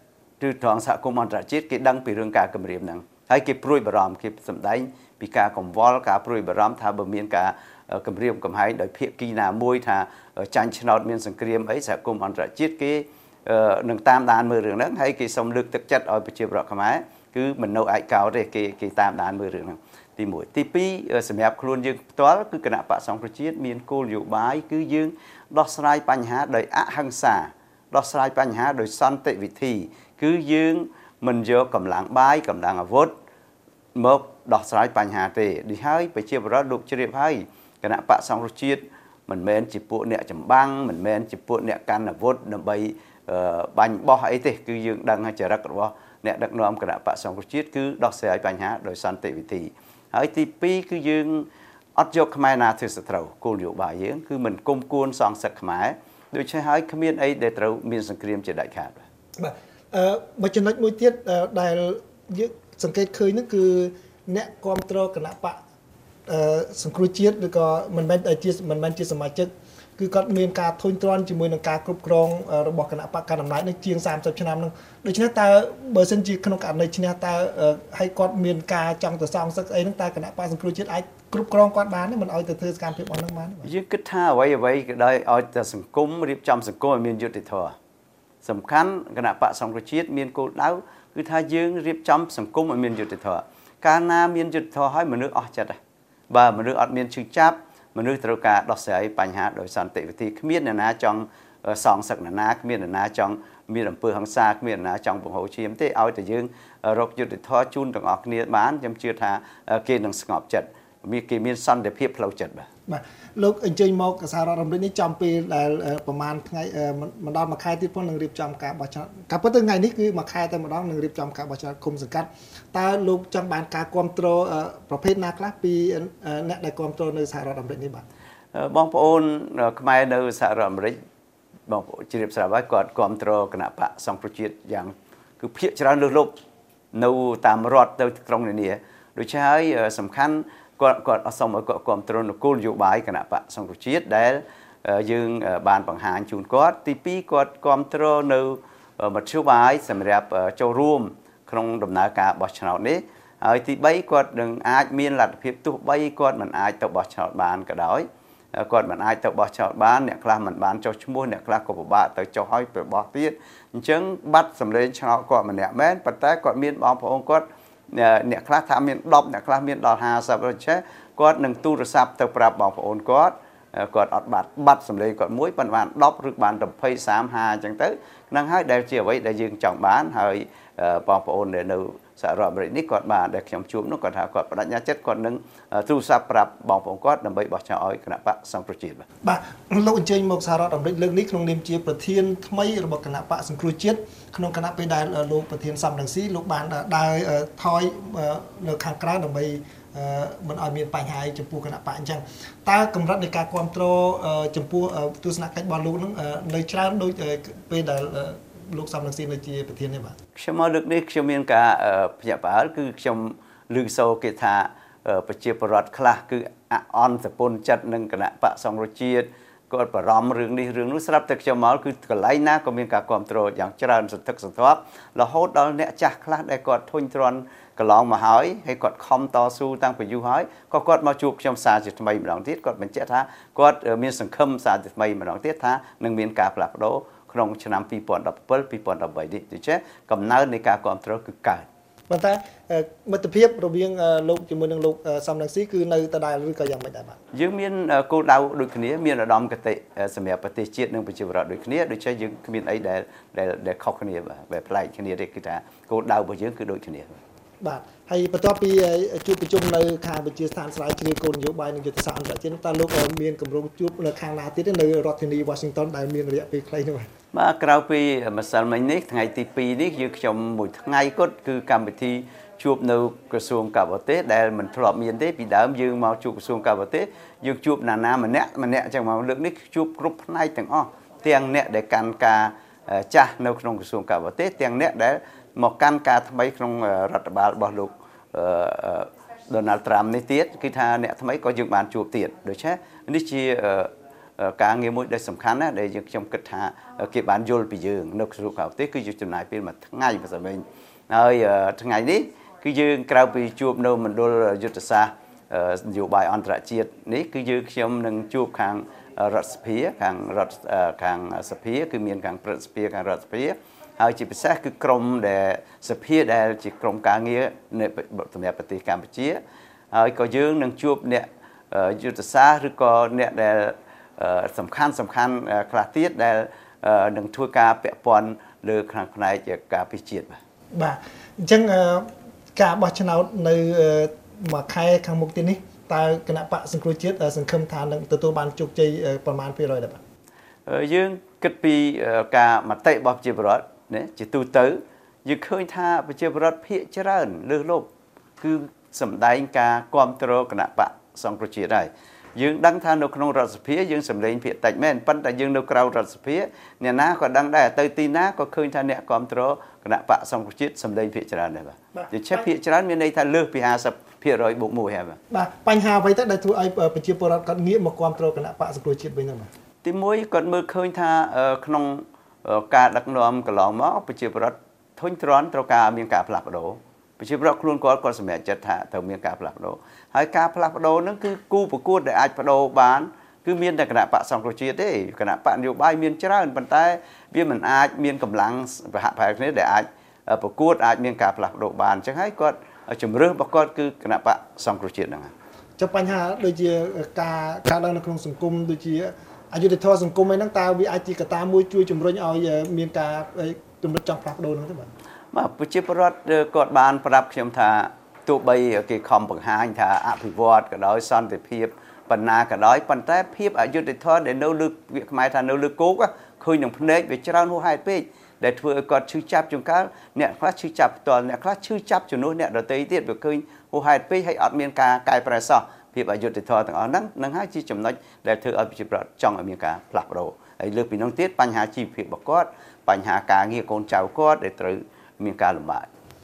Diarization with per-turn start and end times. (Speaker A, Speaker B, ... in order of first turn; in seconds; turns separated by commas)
Speaker A: 0.4-33.1, Speaker A: 34.0-59.0, Speaker B: 59.4-65.6, Speaker B: 66.3-83.7, Speaker A: 83.6-87.7, Speaker A: 88.4-95.8, Speaker A: 96.3-112.7, Speaker B: 112.9-128.1, Speaker A: 128.5-131.0, Speaker A: 131.7-136.3, Speaker A: 136.9-189.1, Speaker B: 189.2-210.2, Speaker A: 210.4-241.7, Speaker B: 242.1-247.2, Speaker A: 247.3-257.2, Speaker B: 257.6-267.1, Speaker A: 267.3-319.4, Speaker A: 319.9-330.4, Speaker B: 330.7-340.0, Speaker A: 340.7-347.9, Speaker A: 348.4-365.2, Speaker B: 365.3-369.5, Speaker A: 369.8-395.3, Speaker B: 395.8-404.9, Speaker A: 405.3-435.9